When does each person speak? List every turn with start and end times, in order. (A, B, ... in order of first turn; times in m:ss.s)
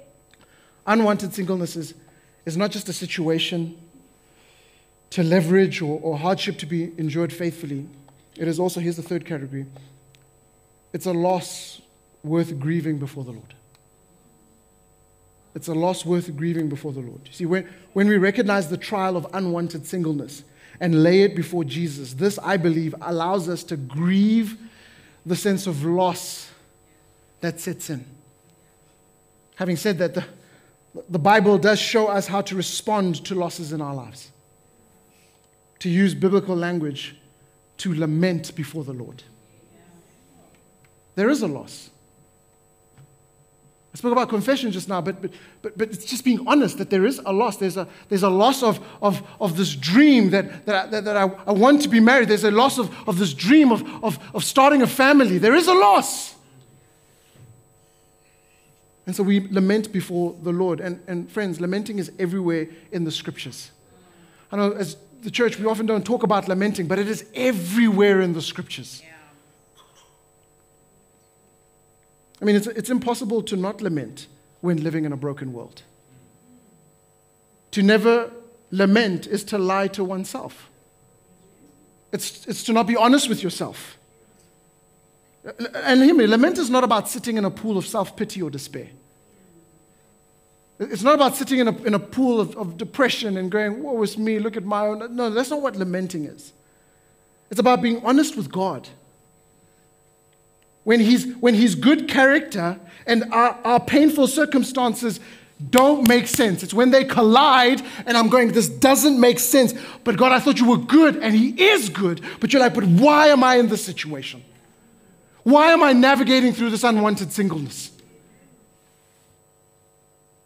0:00.8-0:03.8 A
0:05.1-0:09.7 A
0:10.9-0:13.6 A
0:15.5-0:24.6 A
0:25.2-0:26.5 A
0:27.4-0:28.1 A
0:29.6-0:30.3 A
0:31.0-0:34.3 A
0:35.8-0:37.2 A
0:37.8-0:39.2 A
0:41.2-0:41.9 A
0:43.9-0:56.4 A
0:59.1-1:03.7 A
1:04.5-1:09.0 A
1:12.4-1:15.8 A
1:17.7-1:20.7 A
1:22.1-1:24.0 A
1:25.4-1:28.9 A
1:30.8-1:36.5 A
1:37.5-1:38.9 A
1:40.8-1:54.4 A
1:55.4-1:57.9 A